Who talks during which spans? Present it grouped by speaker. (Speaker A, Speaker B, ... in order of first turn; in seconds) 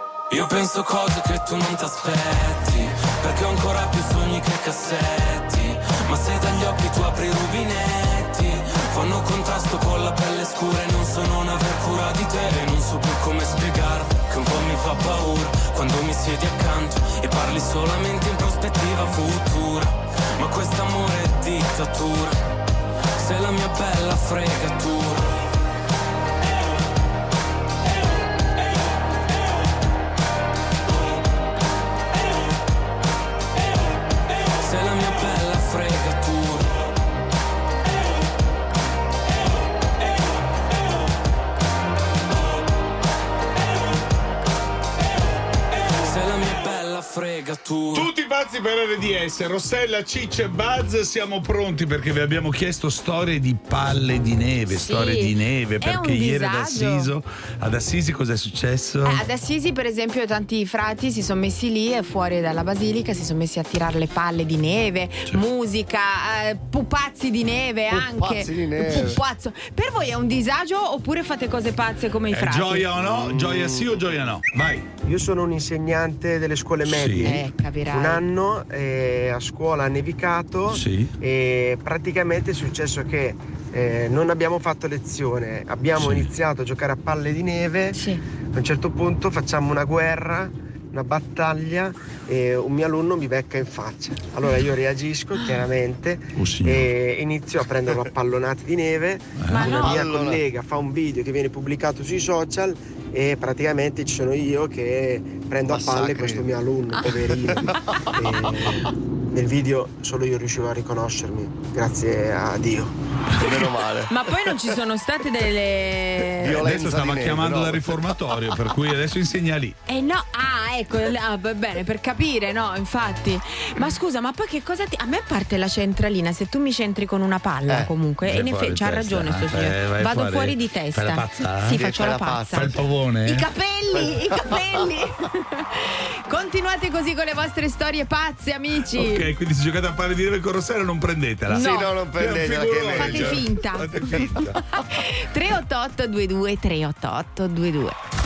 Speaker A: 0.3-22.4, 23.2-25.3, 34.6-36.7, 46.0-48.1
Speaker B: 47.9-59.2, 72.3-74.8, 76.8-77.4, 80.7-81.1, 86.0-86.3, 96.3-96.9, 99.4-99.9, 116.5-119.8, 128.2-131.8, 132.5-133.5, 138.9-144.6
Speaker C: 54.7-57.1, 59.0-72.9, 77.2-78.2, 87.9-88.2, 99.5-100.0, 114.1-116.6, 119.9-132.7, 133.2-139.2, 141.5-141.9, 143.0-147.9
Speaker D: 67.9-69.2, 73.0-73.9, 99.6-100.4, 105.7-106.5, 107.0-108.1, 113.3-114.1, 116.4-118.6, 131.7-132.8, 133.9-134.9, 141.5-143.5
Speaker E: 75.0-88.0, 88.5-112.9